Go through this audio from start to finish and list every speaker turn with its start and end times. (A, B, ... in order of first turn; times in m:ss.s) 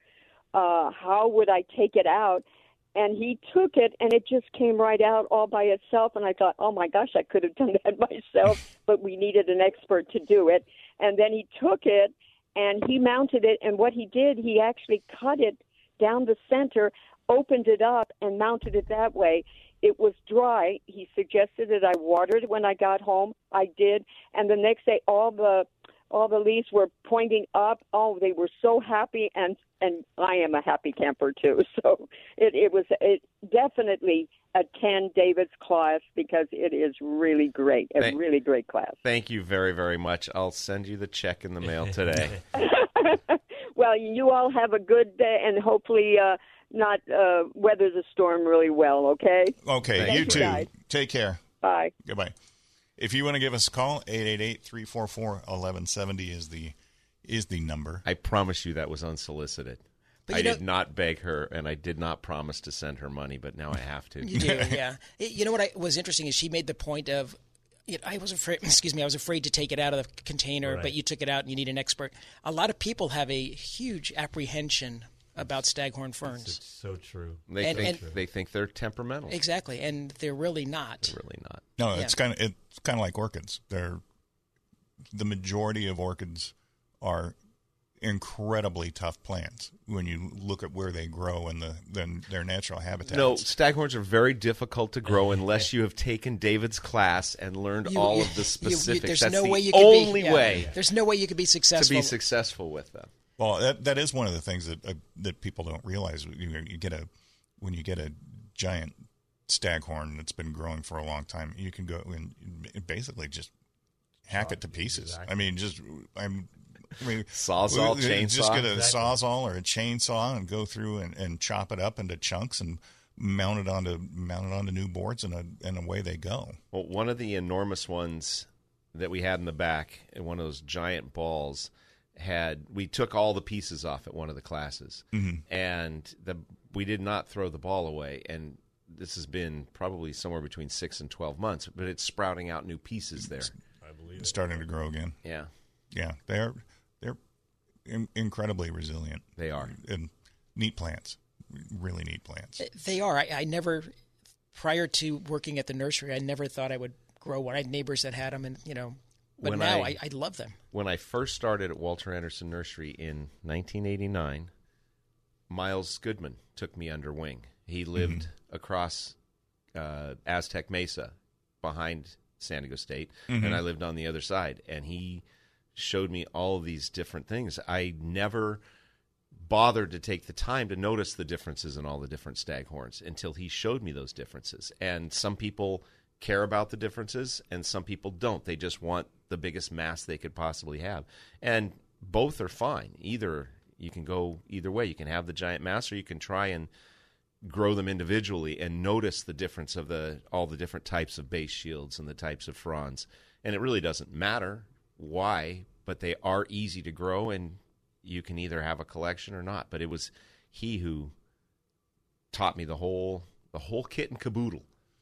0:00.5-0:39.0 A
0:39.0-0:42.4 B
0:42.5-0:50.7 A
0:49.6-0:51.4 C
0:50.0-0:50.6 B
0:51.6-0:51.9 A
0:52.0-0:52.3 C
0:53.0-0:58.0 C
0:58.1-1:04.5 B
1:00.3-1:00.6 D
1:04.2-1:07.4 D
1:04.3-1:04.8 C
1:07.9-1:16.6 D
1:10.6-1:11.0 E
1:16.2-1:18.2 E
1:17.5-1:19.4 B
1:17.6-1:18.0 D
1:19.3-1:21.1 D
1:21.0-1:21.6 B
1:21.8-1:24.0 C
1:25.1-1:27.4 C
1:28.0-1:33.5 C
1:33.1-1:40.7 B
1:37.9-1:42.1 D
1:40.5-1:40.8 E
1:41.8-1:43.1 B
1:43.4-1:47.1 C
1:47.6-1:49.0 C
1:49.5-1:53.5 C
1:54.3-2:06.6 C
1:54.3-1:55.5 E
1:57.3-1:58.7 B
1:58.7-1:59.2 E
2:06.7-2:23.5 B
2:15.1-2:15.4 C
2:23.8-2:24.7 E
2:24.2-2:25.2 C
2:25.2-2:25.5 B
2:25.9-2:27.2 C
2:27.9-2:32.6 C
2:29.4-2:29.8 B
2:32.6-2:33.9 D
2:34.5-2:40.6 D
2:39.4-2:40.0 B
2:40.7-2:44.5 B
2:45.5-2:49.2 B
2:48.0-2:48.2 C
2:49.8-2:55.2 B
2:53.3-2:53.6 C
2:55.8-2:58.6 B
2:59.4-3:16.7 B
3:17.4-3:31.1 B
3:32.3-3:34.7 B